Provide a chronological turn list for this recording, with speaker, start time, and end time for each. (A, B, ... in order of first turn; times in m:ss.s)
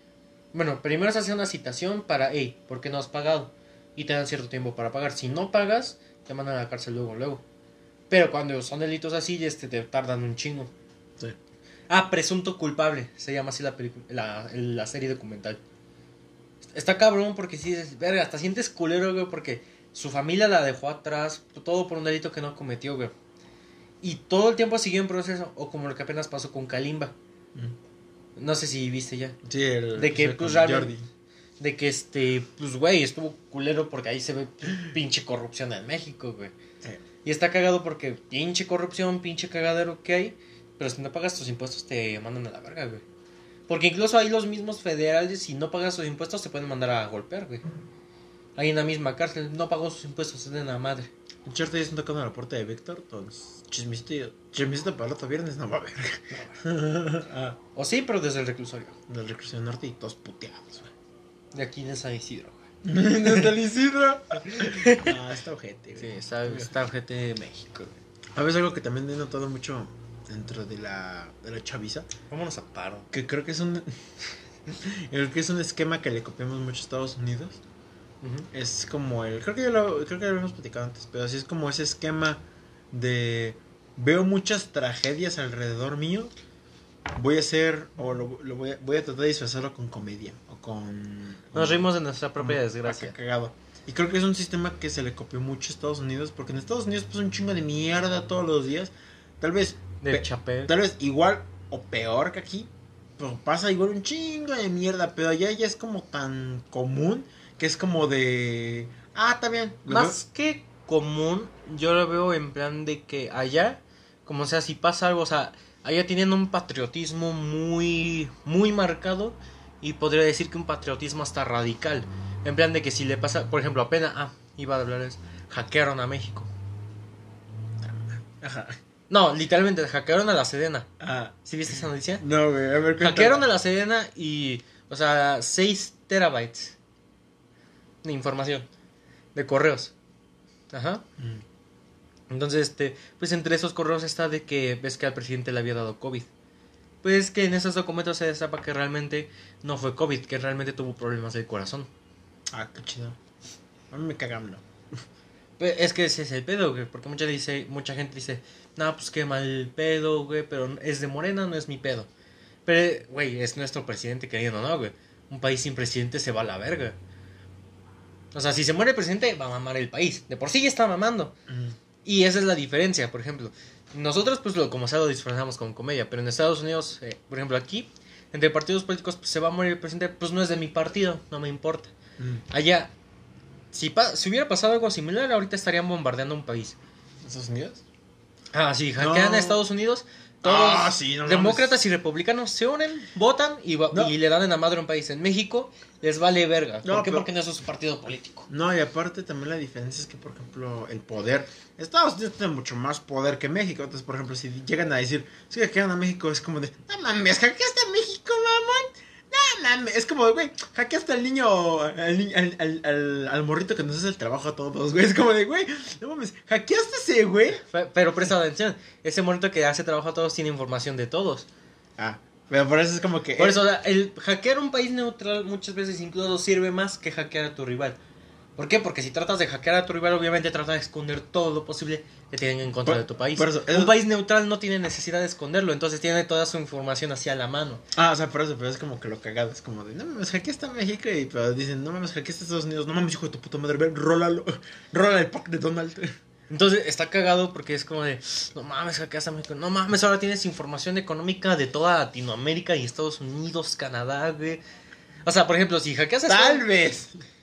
0:00.5-0:07.4 A
0:08.1-0:10.7 A
0:11.9-0:15.6 A
0:16.7-0:23.1 A
0:24.0-0:27.2 A
0:28.4-0:29.4 A
0:29.4-0:31.1 B
0:30.0-0:30.9 A
0:31.6-0:36.6 A
0:37.2-0:43.0 A
0:43.7-0:47.6 A
0:48.6-0:51.1 A
0:51.4-0:57.6 B
0:57.7-0:59.0 A
0:59.1-1:00.9 B
1:01.5-1:02.6 A
1:02.8-1:06.7 B
1:04.4-1:05.1 A
1:06.0-1:08.0 A
1:08.4-1:12.1 B
1:12.3-1:13.1 A
1:13.1-1:14.0 B
1:14.7-1:17.6 B
1:18.2-1:18.5 A
1:18.5-1:26.3 B
1:27.1-1:31.9 B
1:31.5-1:33.1 A
1:32.4-1:50.2 B
1:40.0-1:40.7 A
1:49.9-2:06.5 A
2:07.8-2:08.8 B
2:09.1-2:10.9 A
2:11.0-2:11.4 B
2:11.4-2:12.2 A
2:12.2-2:13.5 B
2:13.0-2:16.8 A
2:18.0-2:18.7 A
2:19.4-2:19.9 A
2:20.7-2:21.0 A
2:21.2-2:21.4 B
2:22.3-2:26.3 A
2:27.0-2:31.9 A
2:32.5-2:33.2 B
2:33.9-2:34.6 B
2:35.6-2:42.1 A
2:42.7-2:47.0 A
2:48.3-2:51.4 A
2:51.5-2:51.8 B
2:52.0-3:01.9 A
3:02.2-3:02.4 B
3:02.5-3:02.9 A
3:03.7-3:06.8 A
3:07.2-3:07.8 B
3:08.5-3:18.5 A
3:09.0-3:09.6 B
3:10.4-3:11.8 B
3:16.8-3:17.3 B
3:18.5-3:37.6 B
3:37.6-3:41.5 A
3:42.0-3:43.6 B
3:43.4-3:48.0 A
3:48.6-3:57.8 A
3:52.8-3:54.0 B
3:58.0-4:06.1 B
4:06.5-4:14.6 A
4:15.3-4:16.6 A
4:16.3-4:17.2 B